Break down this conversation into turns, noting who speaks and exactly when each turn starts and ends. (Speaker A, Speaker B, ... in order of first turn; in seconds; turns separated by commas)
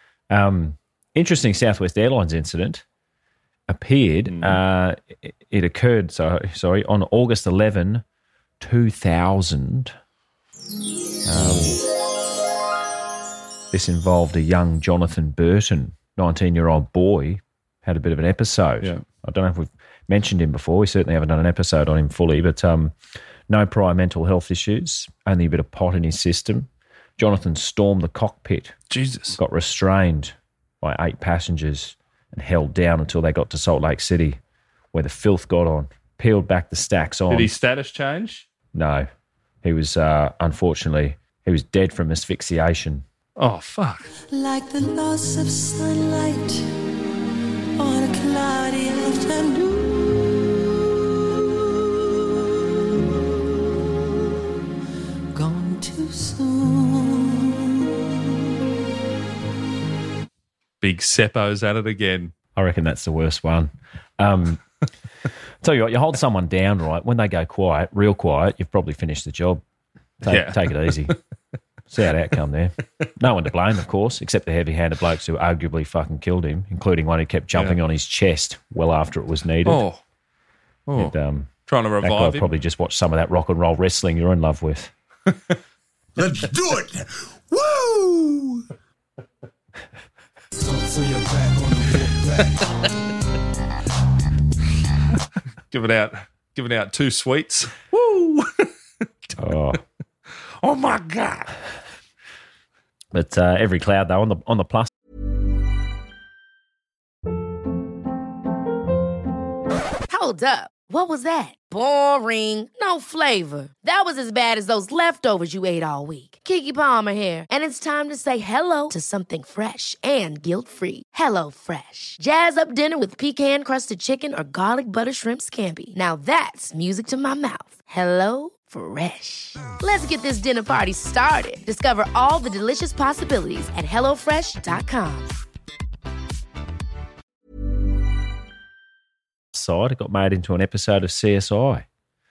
Speaker A: 0.3-2.8, Speaker A: 3.7-8.0, Speaker B: 4.3-4.6, Speaker A: 8.6-9.9, Speaker A: 11.2-11.8, Speaker B: 11.3-11.8, Speaker A: 13.7-22.9, Speaker A: 23.5-28.7, Speaker B: 28.9-29.4, Speaker A: 29.3-34.4, Speaker A: 34.9-37.5, Speaker B: 37.3-38.5, Speaker A: 38.7-39.0, Speaker A: 39.6-43.0, Speaker B: 43.4-44.1, Speaker C: 44.3-46.7, Speaker C: 47.8-50.5, Speaker C: 55.3-57.7, Speaker B: 60.8-62.3, Speaker A: 62.5-64.6, Speaker A: 65.6-69.6, Speaker A: 70.2-71.1, Speaker B: 70.2-71.1, Speaker A: 71.9-79.8, Speaker B: 79.6-80.0, Speaker B: 80.9-81.1, Speaker A: 81.0-81.5, Speaker B: 81.7-82.5, Speaker A: 82.0-84.9, Speaker B: 95.7-98.7, Speaker A: 99.4-99.8, Speaker B: 100.6-101.5, Speaker A: 103.1-104.9, Speaker D: 110.1-135.3, Speaker A: 139.5-141.8